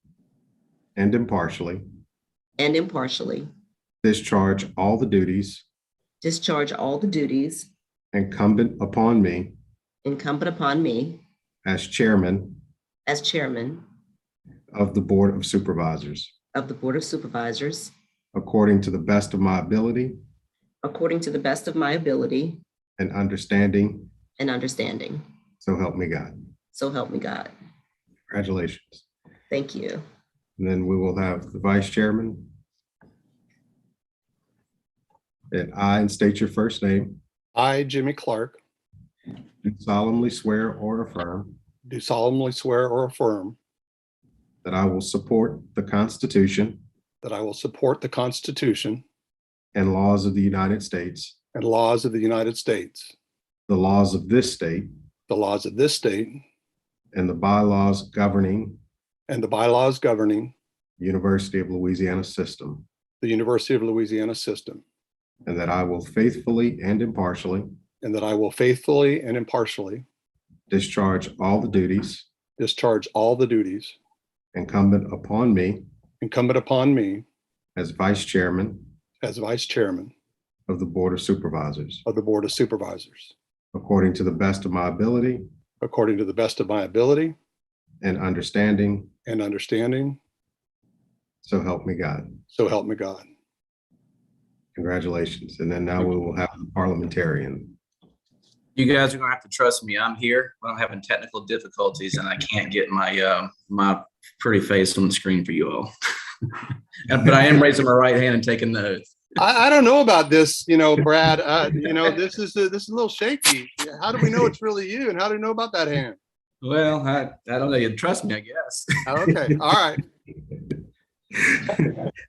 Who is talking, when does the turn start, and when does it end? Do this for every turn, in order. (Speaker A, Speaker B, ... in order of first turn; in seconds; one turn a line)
Speaker A: 0.9-1.8
Speaker B: 2.6-3.5
Speaker A: 4.0-5.6
Speaker B: 6.2-7.7
Speaker A: 8.1-9.5
Speaker B: 10.0-11.2
Speaker A: 11.6-12.6
Speaker B: 13.1-13.8
Speaker A: 14.7-16.3
Speaker B: 16.5-17.9
Speaker A: 18.3-20.1
Speaker B: 20.8-22.6
Speaker A: 23.0-24.1
Speaker B: 24.4-25.2
Speaker A: 25.6-26.4
Speaker B: 26.7-27.5
Speaker A: 28.3-29.0
Speaker B: 29.5-30.0
Speaker A: 30.6-32.5
Speaker A: 35.5-37.2
Speaker C: 37.5-38.6
Speaker A: 39.6-41.5
Speaker C: 41.9-43.5
Speaker A: 44.6-46.8
Speaker C: 47.2-49.0
Speaker A: 49.7-51.4
Speaker C: 51.5-53.1
Speaker A: 53.7-54.9
Speaker C: 55.3-56.4
Speaker A: 57.1-58.8
Speaker C: 59.3-60.5
Speaker A: 61.0-62.8
Speaker C: 63.2-64.8
Speaker A: 65.5-67.7
Speaker C: 68.0-70.0
Speaker A: 70.7-72.3
Speaker C: 72.6-74.0
Speaker A: 74.5-75.8
Speaker C: 76.2-77.2
Speaker A: 77.8-78.9
Speaker C: 79.2-80.1
Speaker A: 80.7-82.0
Speaker C: 82.0-83.3
Speaker A: 83.7-85.4
Speaker C: 85.8-87.3
Speaker A: 88.0-89.1
Speaker C: 89.2-90.2
Speaker A: 91.4-92.4
Speaker C: 92.5-93.2
Speaker A: 94.7-97.8
Speaker D: 98.8-105.9
Speaker D: 106.4-109.1
Speaker C: 109.4-116.2
Speaker D: 116.6-119.0
Speaker C: 119.0-120.0
Speaker A: 121.3-121.9